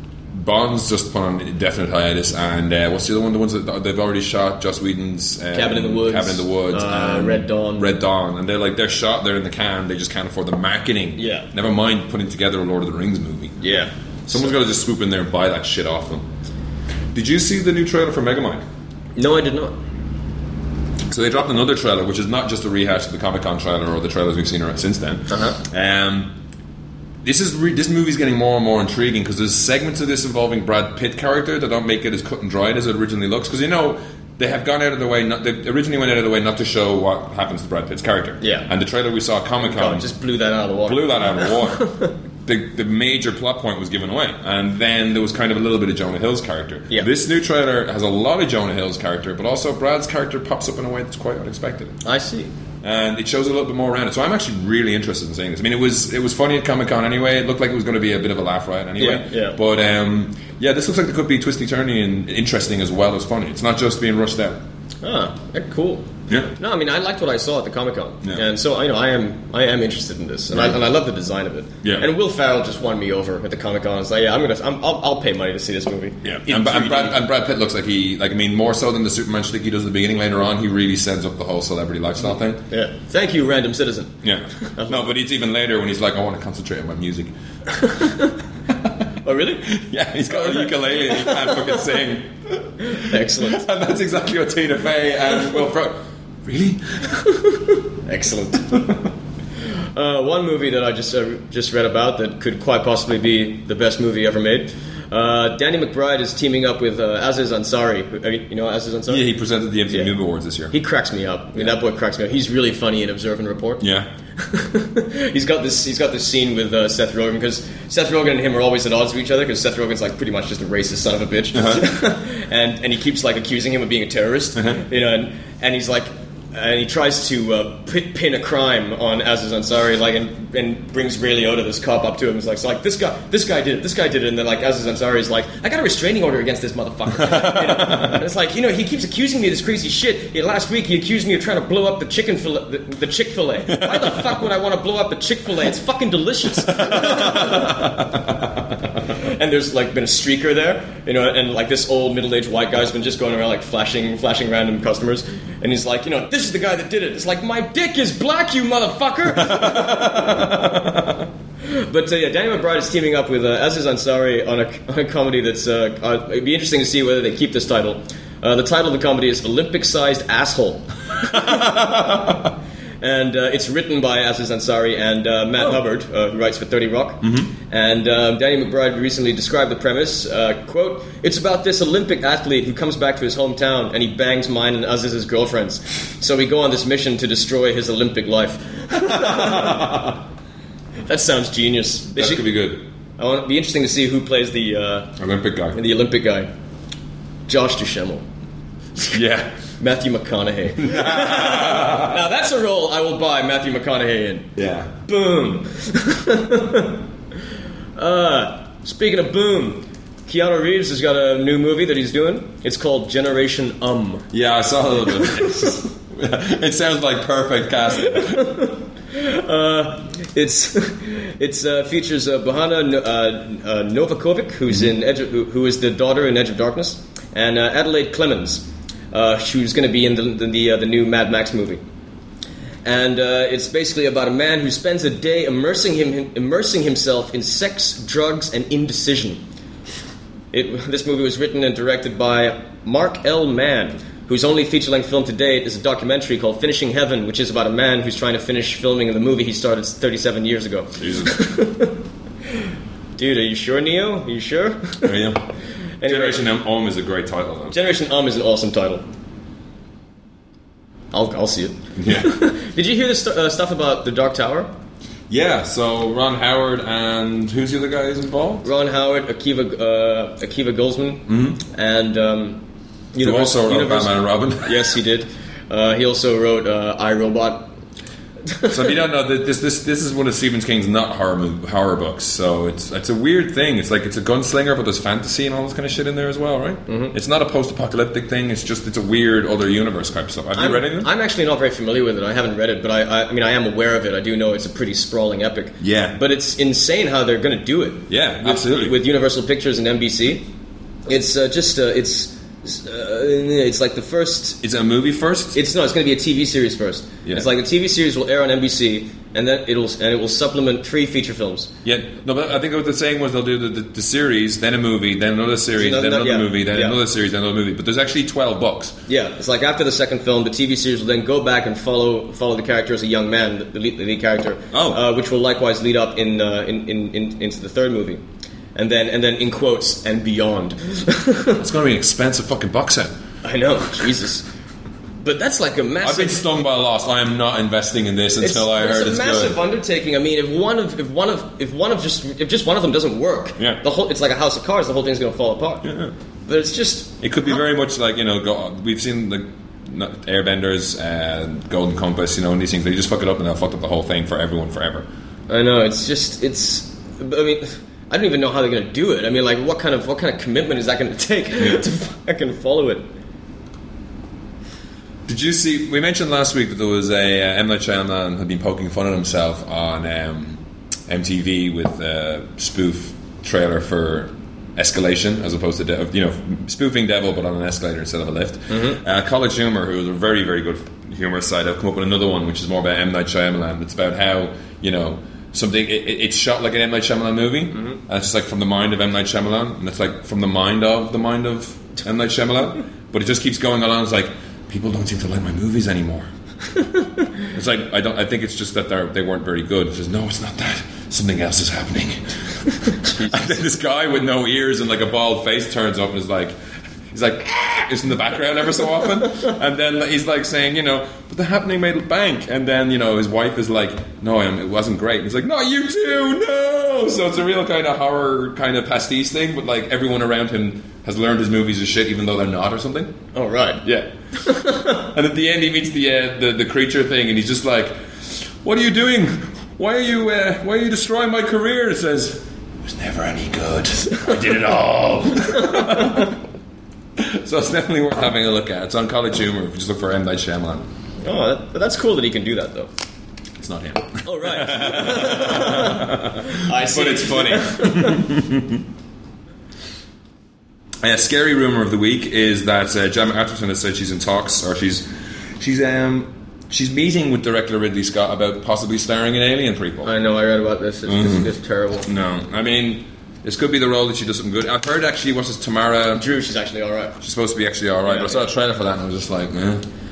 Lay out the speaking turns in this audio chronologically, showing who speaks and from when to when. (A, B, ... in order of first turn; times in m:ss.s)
0:00.3-0:13.6 A
0:05.5-0:07.9 B
0:11.2-0:11.5 B
0:13.6-0:14.5 B
0:14.3-0:16.3 A
0:17.1-0:18.6 A
0:19.2-0:19.8 B
0:21.1-0:26.3 A
0:25.3-0:25.6 B
0:27.2-0:40.0 A
0:38.4-0:38.7 B
0:39.6-0:42.1 B
0:40.9-0:41.9 A
0:42.4-0:52.0 A
0:52.0-0:52.5 B
0:52.8-1:04.6 A
0:59.0-0:59.6 B
1:05.0-1:17.2 B
1:10.5-1:10.8 A
1:16.2-1:22.6 A
1:22.7-1:25.1 B
1:24.2-1:27.3 A
1:27.8-1:28.3 B
1:29.2-1:29.7 B
1:29.7-1:37.5 A
1:30.3-1:31.7 B
1:32.8-1:33.6 B
1:37.9-1:38.9 B
1:39.9-1:49.2 B
1:49.1-1:50.7 A
1:50.7-1:53.8 B
1:53.8-1:54.1 A
1:54.4-2:28.0 B
2:01.5-2:01.9 A
2:17.1-2:18.2 A
2:23.7-2:24.3 A
2:26.7-2:28.6 A
2:29.1-2:41.0 B
2:39.4-2:41.2 A
2:41.6-2:52.5 B
2:51.4-2:52.2 A
2:53.0-3:10.1 B
2:57.2-2:57.5 A
3:09.0-3:10.2 A
3:11.1-3:12.5 B
3:12.2-3:12.8 A
3:13.2-3:15.2 B
3:15.2-3:15.8 A
3:15.7-3:16.5 B
3:17.5-3:18.2 B
3:19.1-3:19.6 A
3:19.8-3:24.5 B
3:20.8-3:22.2 A
3:24.6-3:24.9 A
3:25.1-3:27.0 B
3:28.0-3:34.3 B
3:34.3-3:38.5 A
3:35.2-3:35.7 B
3:38.0-3:51.8 B
3:52.8-3:59.4 B
4:00.5-4:12.0 B
4:11.0-4:11.4 A
4:13.2-4:15.2 B
4:15.0-4:15.4 A
4:16.0-4:16.4 B
4:16.0-4:17.8 A
4:17.7-4:19.0 B
4:21.1-4:24.7 B
4:22.0-4:22.4 A
4:25.3-4:28.7 A
4:28.6-4:32.6 B
4:31.3-4:31.6 A
4:33.1-4:37.7 B
4:33.2-4:34.8 A
4:38.5-4:39.0 B
4:38.7-4:51.1 A
4:46.9-4:47.2 B
4:50.6-5:00.5 B
4:55.8-4:56.2 A
4:58.1-4:59.0 A
5:01.1-5:04.6 B
5:04.6-5:05.6 A
5:05.6-5:11.7 B
5:11.8-5:19.0 A
5:15.8-5:17.0 B
5:19.1-5:28.2 B
5:24.7-5:25.0 A
5:28.8-5:31.6 B
5:31.6-5:33.1 A
5:33.4-5:34.5 B
5:35.2-5:36.4 B
5:36.0-5:39.6 A
5:38.4-5:45.9 B
5:45.8-5:46.1 A
5:46.5-5:47.2 B
5:47.2-5:55.1 A
5:55.5-6:03.0 B
6:05.3-6:36.3 A
6:18.7-6:19.0 B
6:27.7-6:28.0 B
6:37.4-6:42.2 A
6:42.9-6:46.5 A
6:42.9-6:43.6 B
6:47.1-7:03.1 A
7:03.4-7:03.8 B
7:03.8-7:16.4 A
7:04.4-7:05.0 B
7:15.6-7:16.3 B
7:17.2-7:20.8 A
7:21.2-7:22.9 B
7:23.6-7:28.8 A
7:24.2-7:28.3 B
7:31.0-7:35.1 A
7:35.6-7:40.1 A
7:40.0-7:42.1 B
7:41.1-7:41.5 A
7:42.1-7:46.3 A
7:46.2-7:47.2 B
7:47.2-7:49.8 A
7:48.1-7:48.4 B